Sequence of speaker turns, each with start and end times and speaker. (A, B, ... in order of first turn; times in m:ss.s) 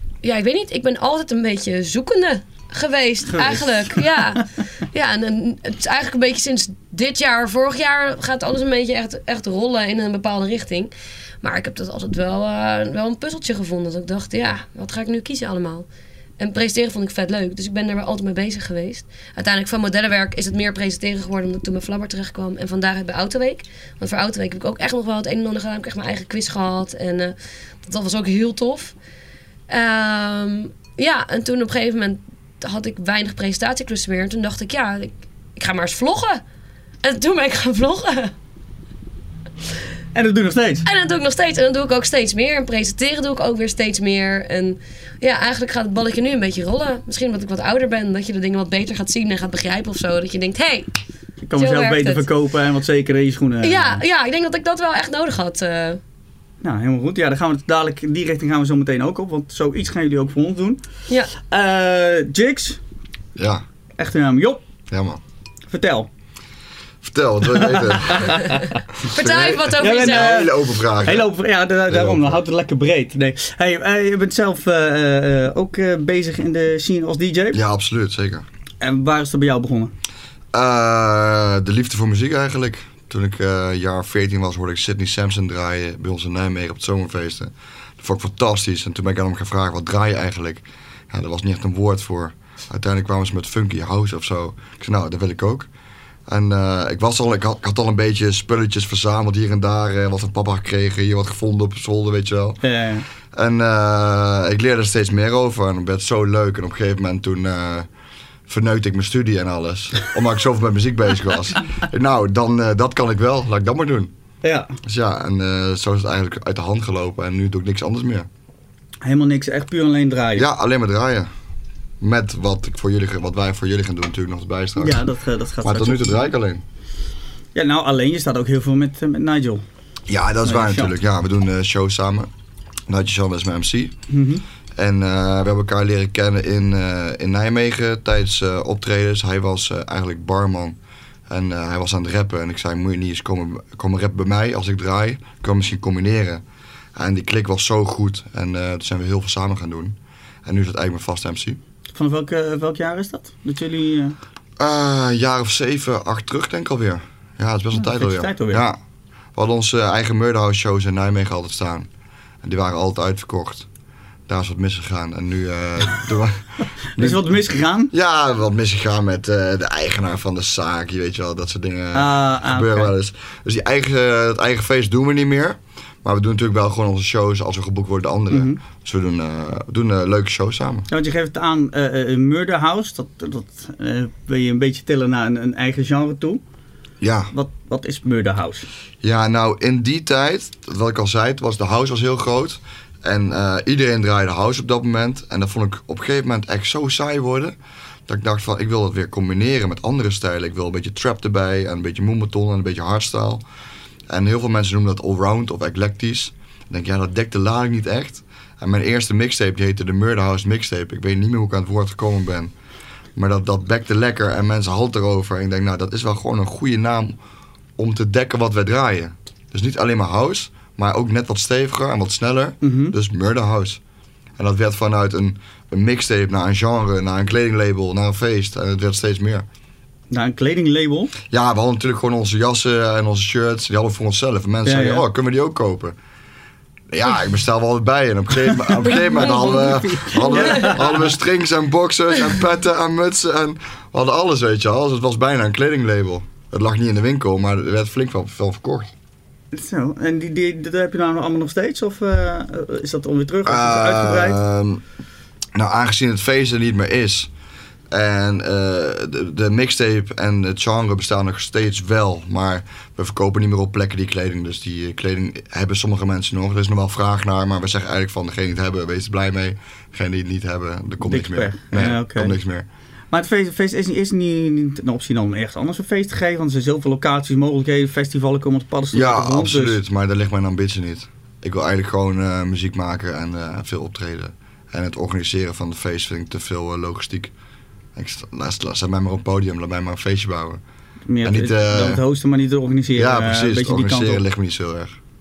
0:00.2-0:15.8 A
0:03.3-0:04.4 B
0:16.4-0:28.9 A
0:29.7-0:36.4 A
0:37.0-0:38.3 A
0:40.1-0:40.8 B
0:40.8-0:50.9 A
0:51.4-0:54.0 B
0:51.6-0:52.2 A
0:53.6-0:56.0 A
0:56.6-1:00.8 B
1:01.4-1:02.8 B
1:03.4-1:03.6 C
1:04.0-1:04.6 B
1:04.9-1:05.2 C
1:05.7-1:06.1 B
1:07.0-1:08.4 C
1:07.5-1:08.8 B
1:09.0-1:10.5 A
1:09.2-1:11.3 C
1:09.7-1:17.6 B
1:11.9-1:12.4 C
1:17.5-1:18.4 C
1:18.8-1:19.9 B
1:20.5-1:35.7 C
1:36.3-1:42.6 C
1:42.6-1:43.0 B
1:43.3-1:47.9 C
1:48.5-1:54.1 C
1:54.4-1:54.7 B
1:54.8-1:58.3 C
1:59.0-2:00.4 B
2:00.3-2:01.3 C
2:02.0-2:05.0 C
2:04.8-2:06.3 B
2:05.6-2:06.6 C
2:07.5-2:09.6 B
2:10.1-2:12.3 C
2:10.4-2:10.9 B
2:12.9-2:13.9 C
2:14.1-2:14.4 B
2:14.8-2:20.8 C
2:21.3-2:26.4 C
2:27.0-2:31.6 C
2:31.9-2:34.2 B
2:34.6-2:38.8 C
2:37.7-2:38.6 B
2:39.3-2:41.9 C
2:42.4-2:43.7 C
2:44.3-2:46.4 C
2:47.0-2:47.3 C
2:47.0-2:47.9 B
2:47.9-3:00.9 C
2:51.9-2:52.9 B
2:58.3-2:58.6 B
3:00.9-3:06.4 B
3:07.0-3:07.3 C
3:07.3-3:08.6 B
3:09.0-3:17.5 C
3:18.1-3:23.4 C
3:24.1-3:32.5 C
3:33.2-3:37.2 C
3:37.8-3:43.8 C
3:42.6-3:43.0 B
3:44.4-3:49.4 C
3:50.1-3:51.1 B
3:51.3-3:56.0 C
3:54.6-3:55.0 B
3:56.9-4:08.9 C
3:58.8-4:01.1 B
4:09.5-4:14.4 B
4:13.4-4:14.8 C
4:15.5-4:17.3 C
4:17.9-4:32.7 C
4:31.0-4:32.4 B
4:33.1-4:39.8 B
4:38.9-4:47.3 C
4:48.0-4:50.6 C
4:51.1-4:54.2 B
4:51.2-4:52.0 C
4:53.0-4:55.0 C